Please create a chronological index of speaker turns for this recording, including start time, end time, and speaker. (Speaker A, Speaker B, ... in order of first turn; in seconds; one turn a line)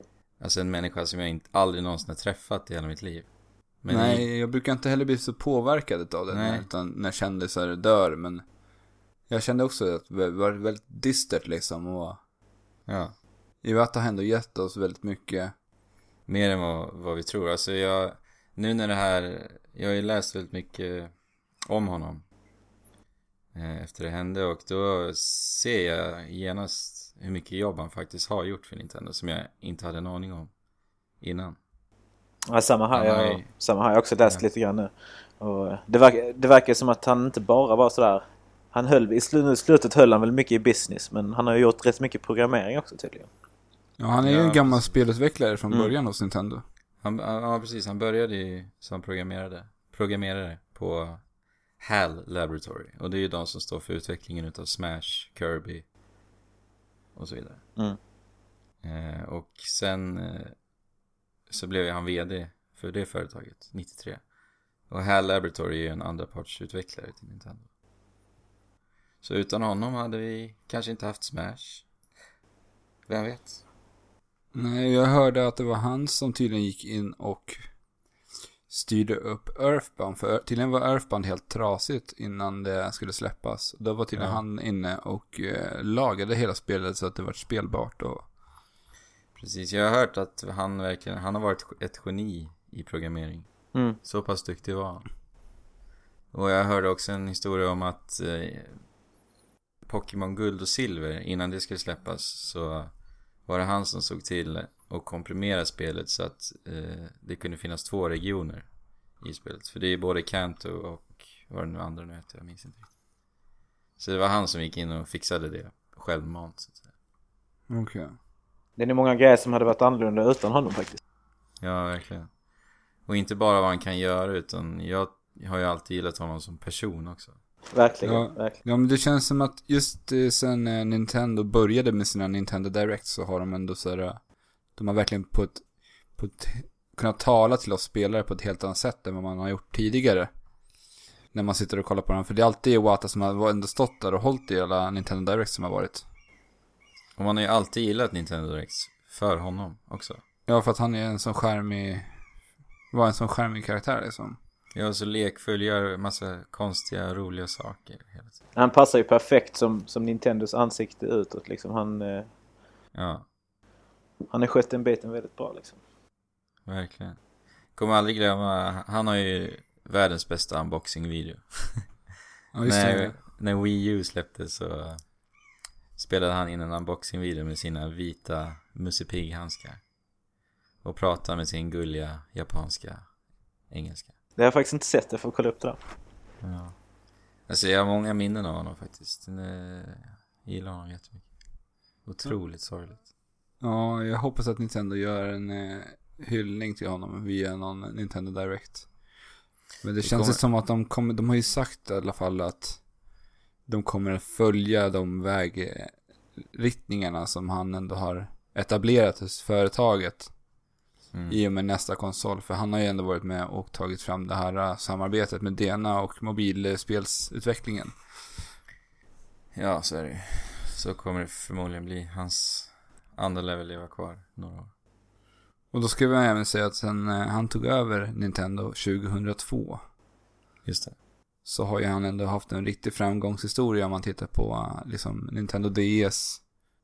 Speaker A: 0.4-4.2
Speaker B: 3.9-8.4
Speaker A: 6.3-6.7
Speaker B: 9.3-12.2
Speaker A: 12.9-13.2
Speaker B: 13.6-15.5
Speaker A: 16.2-21.1
Speaker A: 21.6-22.2
Speaker A: 23.5-30.5
Speaker A: 31.2-31.6
Speaker C: 32.5-43.3
Speaker A: 32.9-33.5
Speaker B: 44.0-46.6
Speaker A: 44.2-45.0
Speaker A: 47.0-51.2
Speaker A: 51.8-55.8
Speaker A: 57.1-57.6
Speaker A: 58.8-60.5
Speaker A: 61.5-64.2
Speaker A: 64.9-67.7
Speaker A: 69.2-71.9
Speaker A: 73.1-73.6
Speaker B: 74.5-77.7
Speaker B: 78.7-88.3
Speaker A: 84.1-84.4
Speaker A: 89.3-95.1
Speaker A: 96.3-98.8
Speaker A: 99.8-108.7
Speaker A: 109.2-112.9
Speaker A: 114.0-116.9
Speaker B: 117.7-118.1
Speaker C: 118.8-121.0
Speaker A: 121.6-122.3
Speaker A: 123.0-127.3
Speaker C: 127.7-128.6
Speaker B: 128.0-140.3
Speaker B: 141.3-146.0
Speaker A: 147.2-150.2
Speaker B: 150.5-152.2
Speaker B: 152.9-154.4
Speaker A: 154.7-158.3
Speaker C: 158.6-162.3
Speaker A: 162.9-163.3
Speaker C: 164.3-165.8
Speaker A: 166.7-167.2
Speaker A: 167.7-172.1
Speaker B: 172.5-173.2
Speaker A: 172.6-175.1
Speaker A: 175.9-179.8
Speaker A: 180.8-183.1
Speaker A: 183.7-184.1
Speaker C: 184.4-185.8
Speaker A: 186.4-186.8
Speaker A: 187.5-191.3
Speaker A: 192.0-193.0
Speaker B: 193.6-198.9
Speaker B: 199.8-202.8
Speaker A: 200.0-200.4
Speaker B: 203.7-210.3
Speaker A: 211.1-211.4
Speaker B: 211.3-218.3
Speaker A: 219.5-224.7
Speaker B: 225.7-229.8
Speaker A: 230.6-230.9
Speaker B: 231.4-236.4